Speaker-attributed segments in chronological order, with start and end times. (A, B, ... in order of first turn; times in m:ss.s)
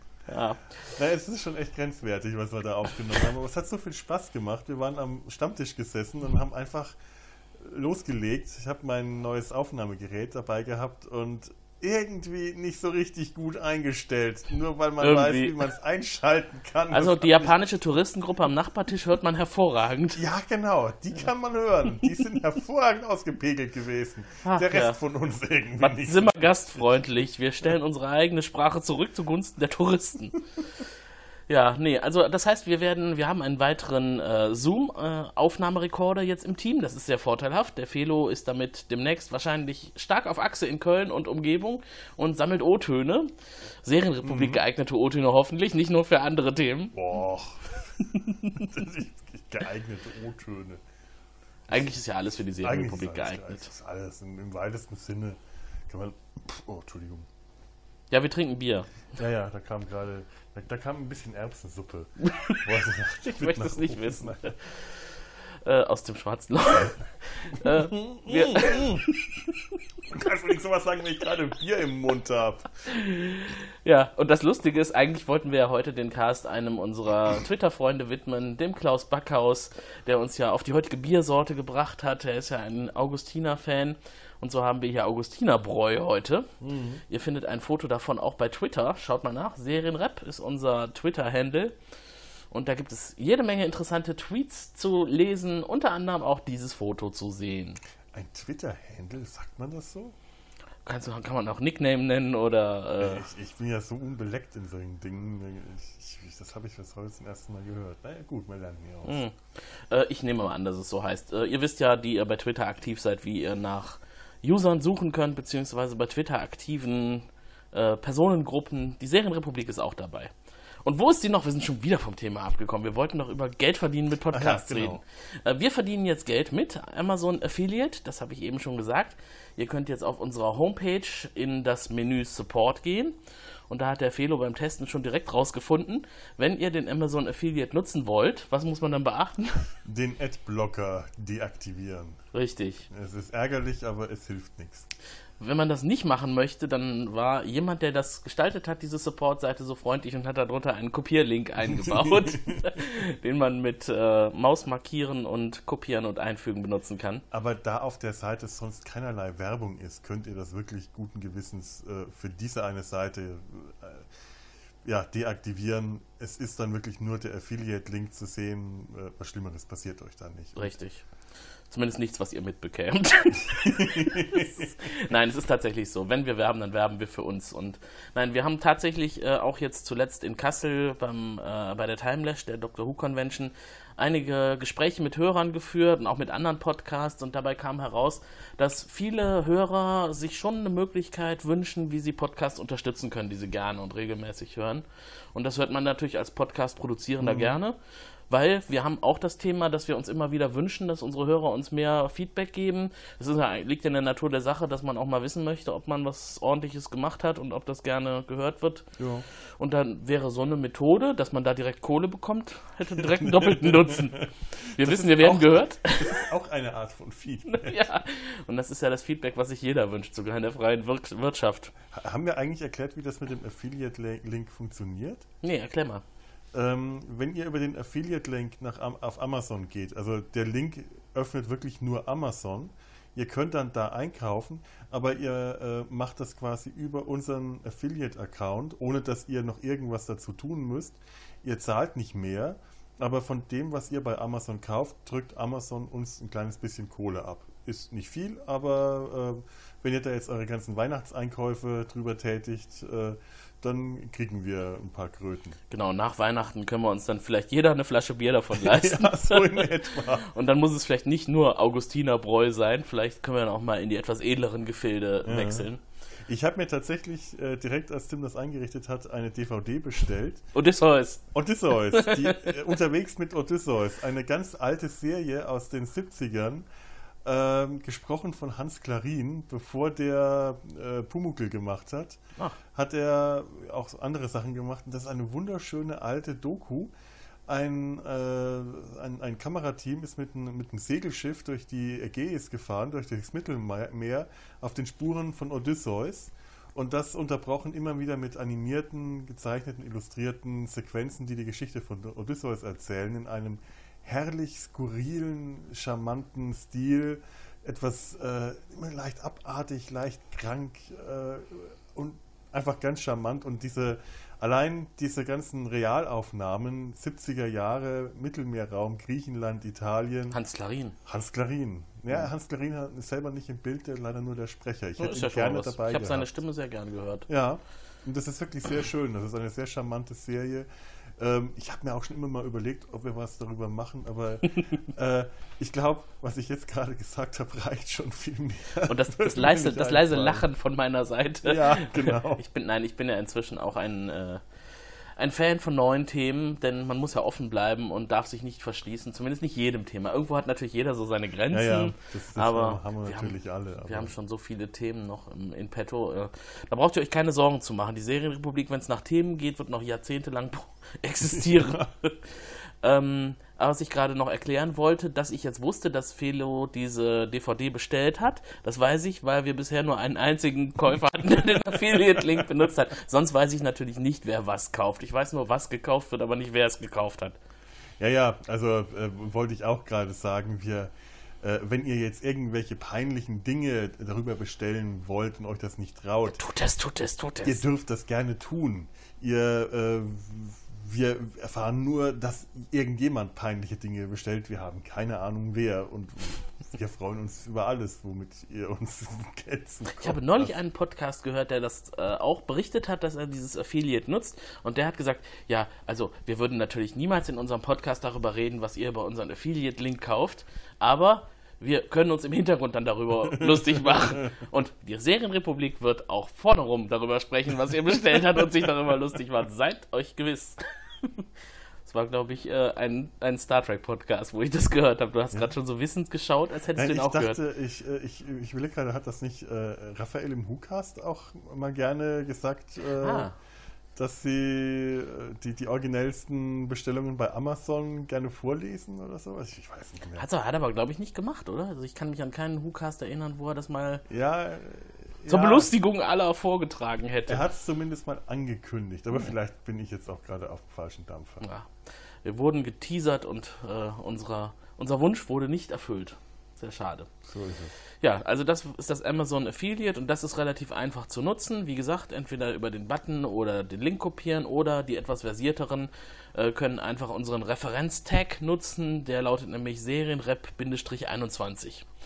0:00.3-0:00.6 A
0:00.9-0:07.0 B
0:07.6-0:17.6 B
0:15.0-0:15.6 A
0:16.9-0:20.2 A
0:20.2-0:26.6 B
0:24.4-0:25.0 A
0:25.8-0:30.4 A
0:31.5-0:43.3 A
0:43.8-0:47.0 A
0:44.2-0:44.6 B
0:46.9-0:50.8 B
0:51.7-0:53.7 A
0:52.6-0:57.3 B
0:58.1-0:58.9 A
0:59.2-1:04.6 B
1:02.3-1:02.6 A
1:03.2-1:05.1 A
1:05.6-1:09.1 A
1:07.6-1:09.0 B
1:10.1-1:12.7 B
1:13.0-1:26.5 A
1:26.6-1:27.0 B
1:27.1-1:31.8 A
1:32.5-1:37.8 A
1:38.1-1:40.2 B
1:40.8-1:43.3 A
1:43.0-1:49.2 B
1:49.1-1:49.4 A
1:49.9-2:00.3 A
2:00.8-2:13.2 A
2:04.3-2:05.0 B
2:13.7-2:19.7 A
2:19.8-2:22.2 B
2:22.3-2:22.9 A
2:22.9-2:24.9 B
2:25.4-2:37.2 A
2:31.6-2:32.8 B
2:37.3-2:44.1 B
2:44.8-2:50.7 B
2:50.6-2:51.0 A
2:51.7-3:17.8 A
2:53.6-2:54.7 B
3:17.2-3:17.6 B
3:18.3-3:28.9 A
3:29.0-3:29.2 B
3:29.6-3:34.2 A
3:32.9-3:37.8 B
3:34.8-3:36.2 A
3:37.5-3:41.8 A
3:41.9-3:45.3 B
3:45.4-3:46.0 A
3:46.5-4:15.6 B
4:15.7-4:25.8 A
4:18.5-4:20.3 B
4:25.2-4:25.7 B
4:26.3-4:30.5 B
4:30.6-4:31.2 A
4:31.3-4:36.7 B
4:31.9-4:32.6 A
4:37.2-4:42.2 B
4:42.7-4:46.9 B
4:47.5-5:20.4 B
5:20.3-5:21.0 A
5:21.1-5:26.4 B
5:25.0-5:27.3 A
5:27.3-5:40.5 B
5:38.9-5:44.4 A
5:41.4-5:42.4 B
5:45.2-6:02.2 A
5:51.5-5:54.1 B
6:01.3-6:01.9 B
6:02.8-6:17.4 A
6:18.0-6:26.4 B
6:26.3-6:27.6 A
6:27.4-6:40.6 B
6:40.0-7:01.2 A
6:53.3-6:54.3 B
7:01.9-7:07.4 A
7:06.8-7:13.3 B
7:13.0-7:13.3 A
7:14.0-7:20.2 B
7:20.2-7:24.0 A
7:24.1-7:25.7 B
7:25.3-7:27.4 A
7:27.3-7:31.5 B
7:31.4-7:31.7 A
7:32.2-7:37.1 A
7:37.2-7:37.7 B
7:38.0-7:51.9 A